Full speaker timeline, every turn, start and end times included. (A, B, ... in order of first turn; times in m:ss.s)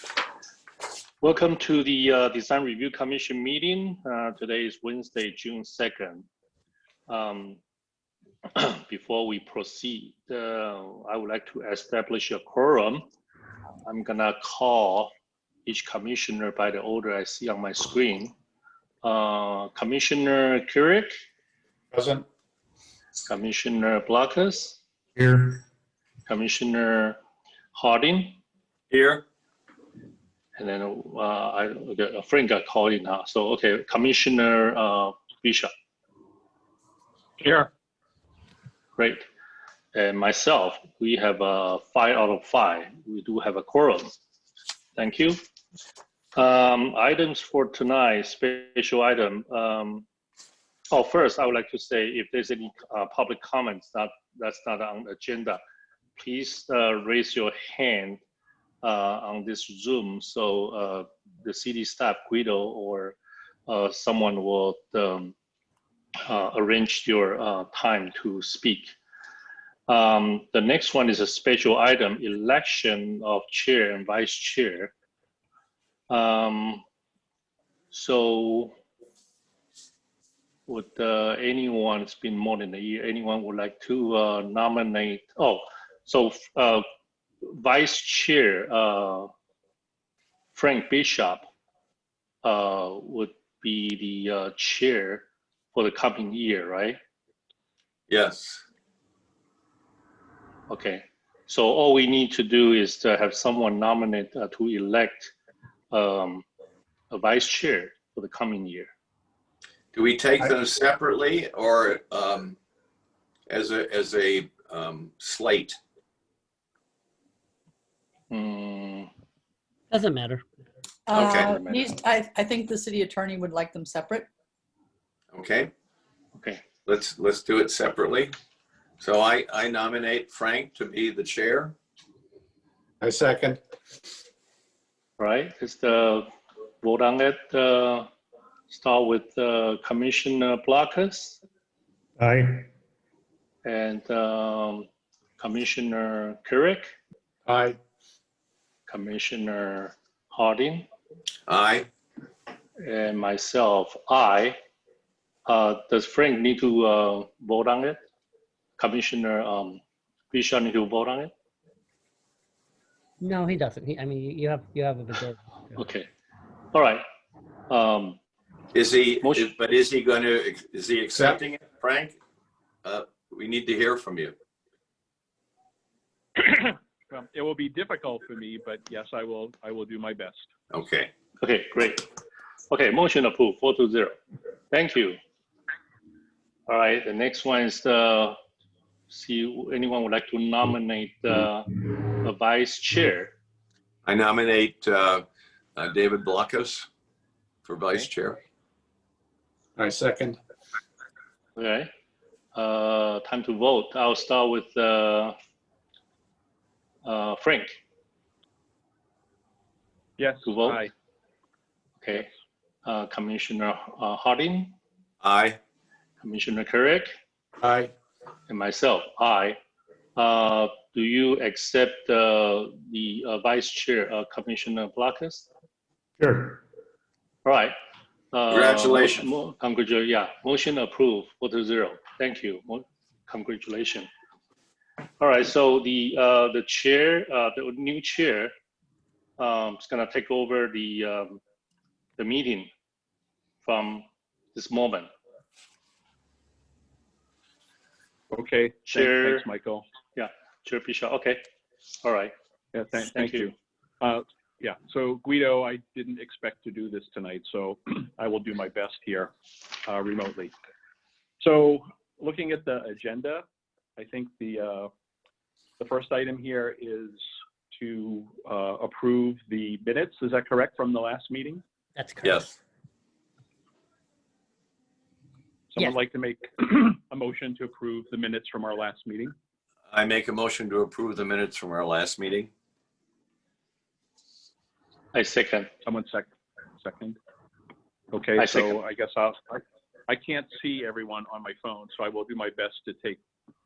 0:01.2-0:06.3 A
0:07.1-0:07.6 A
0:08.6-0:13.1 A
0:13.8-0:15.1 A
0:15.7-0:18.3 A
0:19.0-0:21.1 A
0:21.9-0:22.2 B
0:23.3-0:24.8 A
0:25.2-0:25.6 B
0:26.3-0:27.2 A
0:27.7-0:28.4 A
0:28.9-0:29.2 C
0:30.6-0:35.7 A
0:37.4-0:37.7 D
0:39.0-0:39.2 A
0:39.9-0:44.1 A
0:45.0-0:45.4 A
0:46.4-0:50.1 A
0:50.9-0:55.6 A
0:56.2-0:58.2 A
0:58.8-1:05.4 A
1:06.2-1:09.0 A
1:09.9-1:14.9 A
1:16.1-1:16.8 A
1:17.9-1:18.7 A
1:20.7-1:26.8 A
1:27.4-1:29.3 A
1:30.5-1:31.5 A
1:32.4-1:37.0 A
1:38.1-1:38.6 C
1:40.7-1:45.3 A
1:45.9-1:46.4 A
1:47.1-1:48.9 A
1:49.9-1:52.6 C
1:53.5-1:55.8 C
1:58.3-1:59.1 A
1:59.9-2:00.4 E
2:01.1-2:04.3 F
2:01.1-2:01.7 C
2:01.6-2:01.9 A
2:05.3-2:05.7 C
2:06.4-2:06.6 A
2:06.9-2:08.3 C
2:09.0-2:11.8 C
2:13.0-2:13.6 B
2:15.2-2:16.3 A
2:16.8-2:18.1 A
2:18.7-2:21.4 A
2:23.6-2:24.9 A
2:25.4-2:27.0 A
2:27.5-2:27.8 B
2:28.9-2:30.9 A
2:31.5-2:31.9 C
2:32.8-2:34.6 A
2:35.5-2:38.0 A
2:38.8-2:41.3 A
2:43.2-2:45.9 E
2:45.8-2:46.1 A
2:46.7-2:47.0 A
2:47.7-2:48.2 A
2:48.7-2:52.2 C
2:49.2-2:49.5 A
2:52.8-2:54.3 C
2:56.4-3:00.5 D
3:00.7-3:01.1 C
3:01.4-3:02.0 A
3:02.7-3:04.2 A
3:04.7-3:05.2 A
3:06.7-3:08.4 A
3:09.1-3:13.3 A
3:14.1-3:15.2 C
3:15.8-3:16.9 C
3:17.6-3:18.4 C
3:19.8-3:20.4 B
3:21.6-3:21.9 A
3:22.5-3:25.4 A
3:27.0-3:27.8 A
3:30.2-3:30.9 D
3:30.4-3:30.9 A
3:32.0-3:32.3 A
3:32.8-3:34.8 A
3:35.2-3:35.6 C
3:36.2-3:37.1 A
3:37.6-3:37.9 B
3:38.5-3:39.6 A
3:40.2-3:45.5 A
3:46.2-3:46.6 B
3:47.4-3:47.7 A
3:48.3-3:54.1 A
3:48.5-3:49.3 C
3:55.2-3:58.5 A
3:59.4-4:01.4 A
4:02.2-4:02.7 A
4:03.6-4:05.1 A
4:08.3-4:09.8 D
4:08.9-4:09.5 A
4:10.2-4:11.4 A
4:12.0-4:12.3 A
4:12.7-4:20.5 D
4:13.1-4:13.5 A
4:21.4-4:23.4 D
4:24.0-4:24.9 D
4:25.8-4:31.6 D
4:32.0-4:32.4 E
4:32.2-4:32.5 C
4:35.7-4:39.3 D
4:39.9-4:42.5 C
4:45.1-4:45.7 A
4:45.8-4:46.3 D
4:46.8-4:47.2 D
4:48.1-4:53.2 D
4:48.4-4:48.8 A